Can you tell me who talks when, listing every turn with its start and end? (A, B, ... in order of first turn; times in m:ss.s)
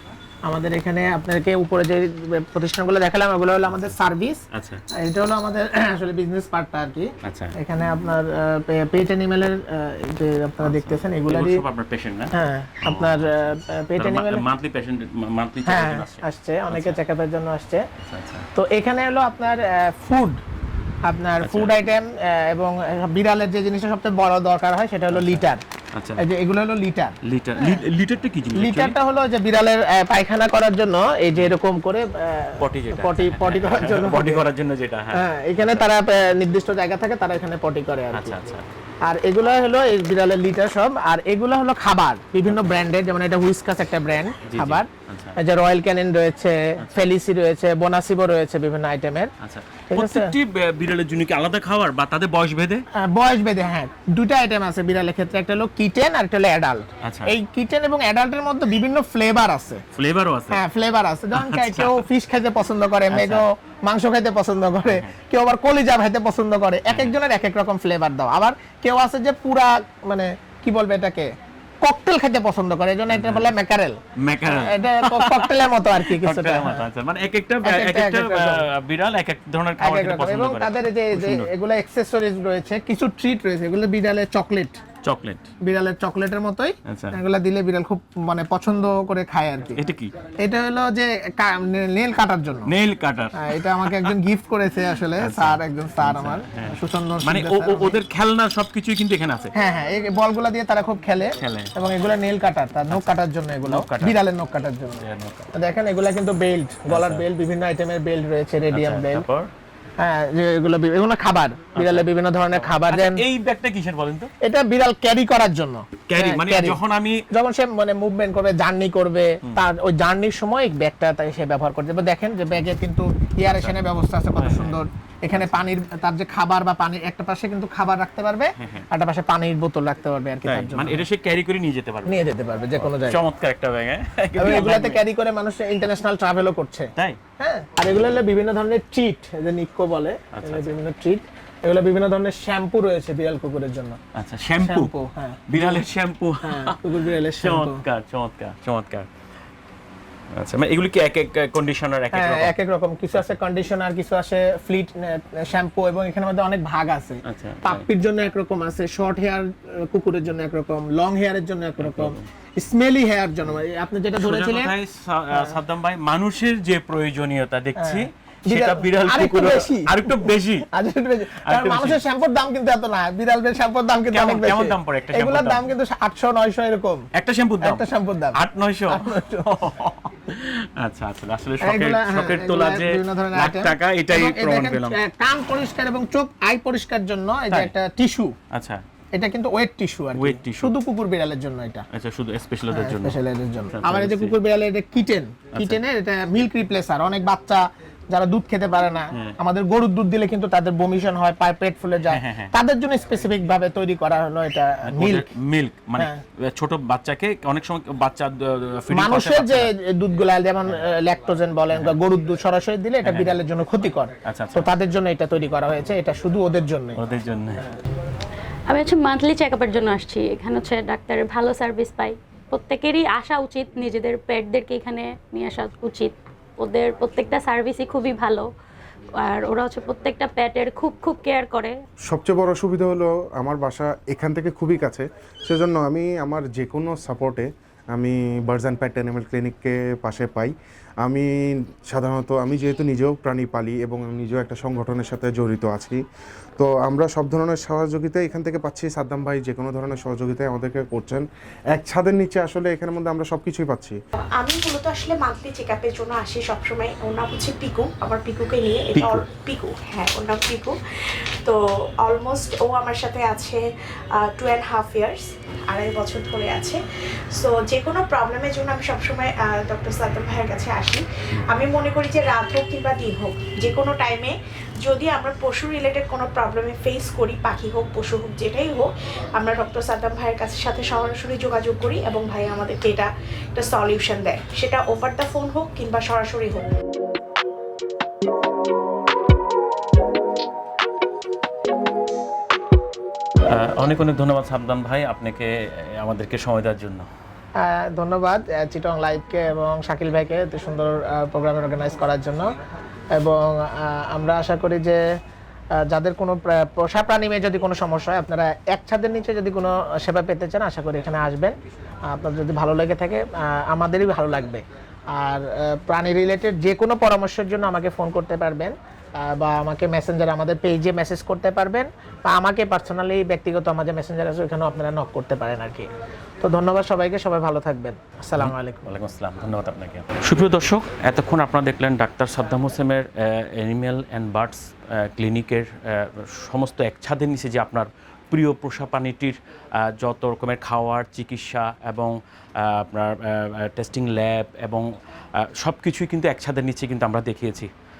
0:00.4-0:04.4 A
0:03.7-0:03.9 B
0:04.5-0:04.8 B
0:05.0-0:11.6 A
0:07.2-0:07.5 B
0:10.6-0:12.3 B
0:12.3-0:14.4 A
0:12.9-0:17.0 B
0:15.6-0:17.8 A
0:18.0-0:18.5 B
0:18.6-0:20.4 A
0:21.0-0:25.6 A
0:21.4-0:21.8 B
0:25.1-0:25.4 B
0:26.0-0:26.2 B
0:26.2-0:27.8 A
0:27.2-0:28.9 B
0:28.6-0:34.5 A
0:32.6-0:35.8 B
0:35.1-0:38.4 A
0:38.1-0:38.7 B
0:39.1-0:44.9 A
0:44.4-0:45.4 B
0:45.4-0:49.3 A
0:46.8-0:47.1 B
0:49.4-0:52.8 B
0:49.9-0:50.4 A
0:53.0-0:59.8 A
0:57.0-0:57.3 B
0:59.9-1:00.6 B
1:00.5-1:11.3 A
1:01.4-1:02.0 B
1:03.1-1:03.4 B
1:04.9-1:05.1 B
1:11.8-1:16.8 A
1:13.1-1:13.5 B
1:14.2-1:21.5 B
1:17.6-1:18.6 A
1:19.8-1:24.8 A
1:25.0-1:25.5 B
1:25.6-1:29.8 A
1:26.9-1:27.2 B
1:29.8-1:30.1 B
1:30.4-1:32.7 A
1:32.7-1:34.2 B
1:33.4-1:38.0 A
1:35.2-1:39.5 B
1:39.6-1:45.0 A
1:41.4-1:41.7 B
1:42.9-1:44.2 B
1:45.0-1:45.5 B
1:45.6-1:49.3 A
1:46.9-1:47.2 B
1:48.7-1:49.5 B
1:50.0-1:53.2 A
1:51.8-1:54.3 B
1:54.4-1:56.8 A
1:56.1-1:57.2 B
1:57.3-2:11.0 A
2:04.3-2:04.8 B
2:05.3-2:05.6 B
2:08.6-2:08.9 B
2:10.4-2:12.2 B
2:12.1-2:13.2 A
2:12.7-2:15.0 B
2:14.4-2:24.0 A
2:20.3-2:20.8 B
2:24.2-2:24.9 B
2:24.6-2:25.8 A
2:25.5-2:29.1 B
2:26.4-2:27.8 A
2:30.4-2:32.5 B
2:32.1-2:44.7 A
2:37.2-2:37.8 B
2:41.8-2:42.2 B
2:44.2-2:50.7 B
2:47.8-2:57.1 A
2:51.5-2:52.0 B
2:54.1-2:55.7 B
2:57.1-3:05.0 B
2:57.6-2:59.5 A
3:01.6-3:08.4 A
3:08.5-3:08.8 B
3:09.1-3:11.8 A
3:10.2-3:10.7 B
3:11.9-3:13.2 B
3:12.7-3:25.3 A
3:13.7-3:14.3 B
3:22.1-3:22.5 B
3:24.9-3:29.7 B
3:28.9-3:37.0 A
3:33.1-3:33.4 B
3:34.2-3:34.7 B
3:37.0-3:37.6 B
3:38.7-3:48.5 C
3:49.2-3:51.8 C
3:52.1-4:01.3 D
4:01.9-4:06.0 D
4:06.6-4:14.0 D
4:14.4-4:26.8 E
4:18.9-4:19.2 B
4:27.4-4:46.6 E
4:31.4-4:31.6 B
4:53.5-4:57.1 B
4:57.6-5:02.5 A
5:03.2-5:05.0 A
5:05.9-5:11.6 A
5:12.1-5:14.6 A
5:15.1-5:25.9 A
5:26.4-5:28.9 A
5:28.4-5:39.4 B
5:39.9-5:44.9 B
5:45.4-5:47.7 B